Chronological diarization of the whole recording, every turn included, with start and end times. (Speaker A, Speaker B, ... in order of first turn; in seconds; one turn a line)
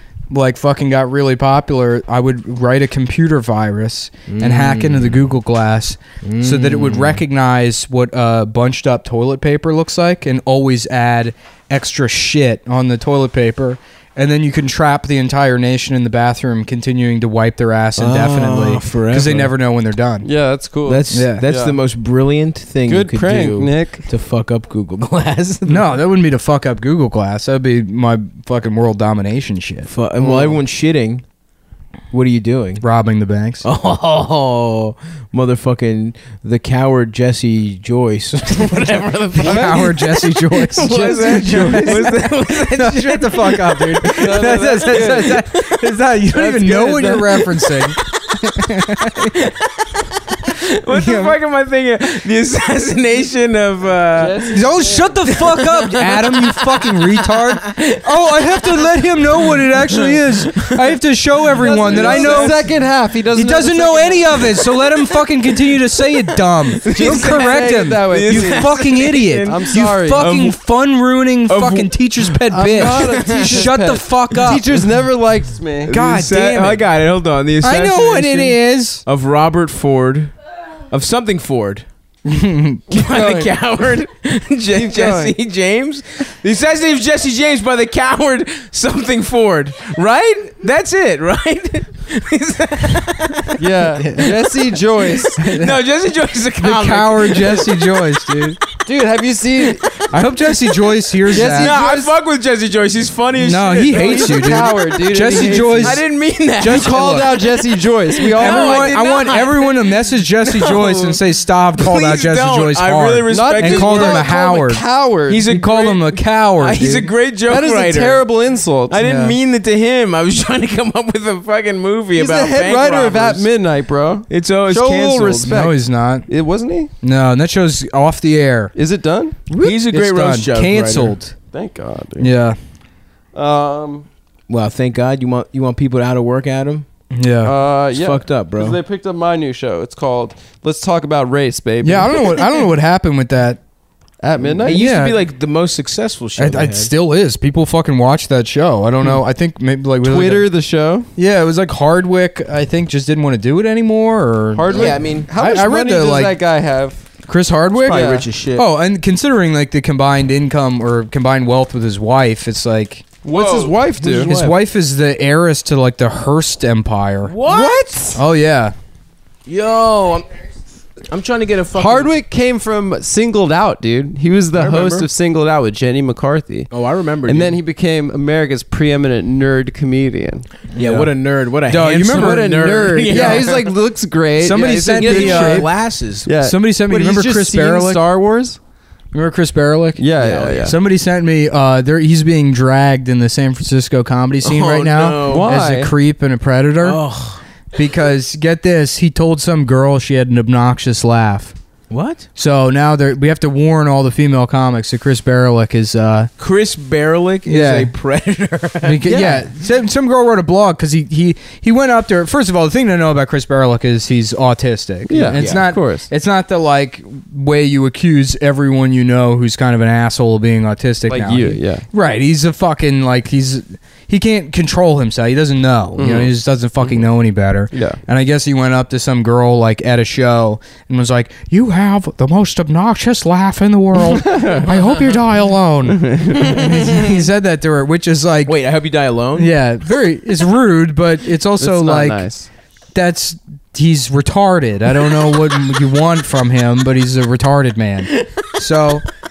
Speaker A: 0.3-20.3
Speaker B: 4.3-5.2
Speaker B: 6.2-7.2
Speaker B: 18.0-19.5
Speaker C: 20.2-21.8
Speaker B: 20.9-25.9
Speaker A: 21.1-21.5
Speaker C: 22.9-24.0
Speaker A: 25.7-29.9
Speaker B: 29.9-31.2
Speaker C: 30.2-30.6
Speaker B: 32.1-32.8
Speaker A: 32.8-33.6
Speaker B: 33.6-48.4
Speaker A: 39.4-49.4
Speaker C: 39.4-39.9
Speaker C: 41.1-42.1
Speaker C: 44.1-45.4
Speaker B: 49.1-54.6
Speaker A: 50.9-51.4
Speaker C: 54.1-55.5
Speaker A: 54.5-62.6
Speaker B: 55.2-58.8
Speaker B: 59.4-60.8
Speaker B: 61.5-62.7
Speaker C: 61.6-64.6
Speaker A: 63.3-74.7
Speaker B: 66.5-70.6
Speaker C: 67.0-70.3
Speaker B: 71.5-73.7
Speaker C: 72.5-75.9
Speaker B: 75.9-80.3
Speaker A: 75.9-76.9
Speaker A: 77.6-79.0
Speaker B: 80.9-81.9
Speaker A: 82.2-83.0
Speaker B: 82.9-94.3
Speaker C: 83.1-83.4
Speaker A: 84.8-85.3
Speaker C: 93.6-95.4
Speaker A: 94.0-94.4
Speaker B: 95.2-98.4
Speaker A: 95.4-95.8
Speaker A: 96.6-98.6
Speaker C: 98.8-100.1
Speaker B: 100.0-100.8
Speaker A: 100.1-101.8
Speaker B: 101.3-107.4
Speaker C: 101.3-102.2
Speaker A: 103.4-106.0
Speaker C: 103.9-106.0
Speaker A: 106.6-107.4
Speaker C: 106.6-109.0
Speaker B: 108.2-111.2
Speaker A: 108.3-114.8
Speaker B: 111.8-114.3
Speaker C: 113.3-115.5
Speaker B: 115.3-118.2
Speaker A: 115.4-117.1
Speaker C: 117.5-119.0
Speaker B: 118.9-123.5
Speaker A: 119.0-119.4
Speaker C: 122.2-126.9
Speaker B: 124.3-125.5
Speaker A: 125.5-126.3
Speaker A: 127.0-128.7
Speaker C: 128.8-129.3
Speaker A: 129.5-131.3
Speaker B: 129.6-131.2
Speaker C: 131.5-132.3
Speaker A: 132.2-132.6
Speaker C: 133.3-134.1
Speaker B: 134.5-136.9
Speaker A: 137.1-137.6
Speaker C: 137.4-142.4
Speaker B: 137.9-138.8
Speaker A: 141.8-143.6
Speaker C: 144.2-144.8
Speaker A: 144.6-145.2
Speaker B: 144.6-146.9
Speaker A: 146.4-150.5
Speaker C: 150.0-151.1
Speaker A: 151.2-156.4
Speaker C: 154.5-157.1
Speaker B: 154.7-155.3
Speaker A: 157.3-163.1
Speaker B: 157.8-158.7
Speaker C: 157.9-158.3
Speaker C: 163.2-164.3
Speaker B: 163.2-164.6
Speaker A: 164.2-167.4
Speaker B: 167.2-168.1
Speaker C: 167.5-168.2
Speaker A: 168.2-168.8
Speaker B: 169.5-170.3
Speaker B: 171.1-172.1
Speaker C: 171.8-176.7
Speaker B: 174.5-175.1
Speaker B: 176.7-177.6
Speaker C: 177.3-180.5
Speaker B: 180.7-183.7
Speaker A: 180.8-181.1
Speaker A: 181.7-183.5
Speaker C: 182.1-185.7
Speaker A: 184.4-185.7
Speaker B: 184.5-186.3
Speaker C: 186.3-188.6
Speaker A: 186.4-188.0
Speaker A: 189.1-190.1
Speaker C: 190.0-190.7
Speaker B: 190.2-190.8
Speaker A: 190.6-197.0
Speaker B: 194.4-195.5
Speaker C: 195.3-195.9
Speaker B: 196.8-197.4
Speaker A: 197.7-201.6
Speaker B: 201.9-202.3
Speaker A: 202.4-206.3
Speaker B: 206.4-209.3
Speaker A: 207.5-207.9
Speaker A: 208.8-238.6
Speaker C: 209.1-209.4
Speaker C: 215.1-216.1
Speaker B: 215.3-215.7
Speaker C: 221.1-221.8
Speaker C: 226.0-226.9
Speaker C: 227.7-228.0
Speaker C: 234.1-234.8
Speaker C: 235.9-236.6
Speaker B: 236.4-237.1
Speaker B: 238.5-239.5
Speaker A: 239.4-242.3
Speaker C: 241.6-242.5
Speaker A: 242.9-249.0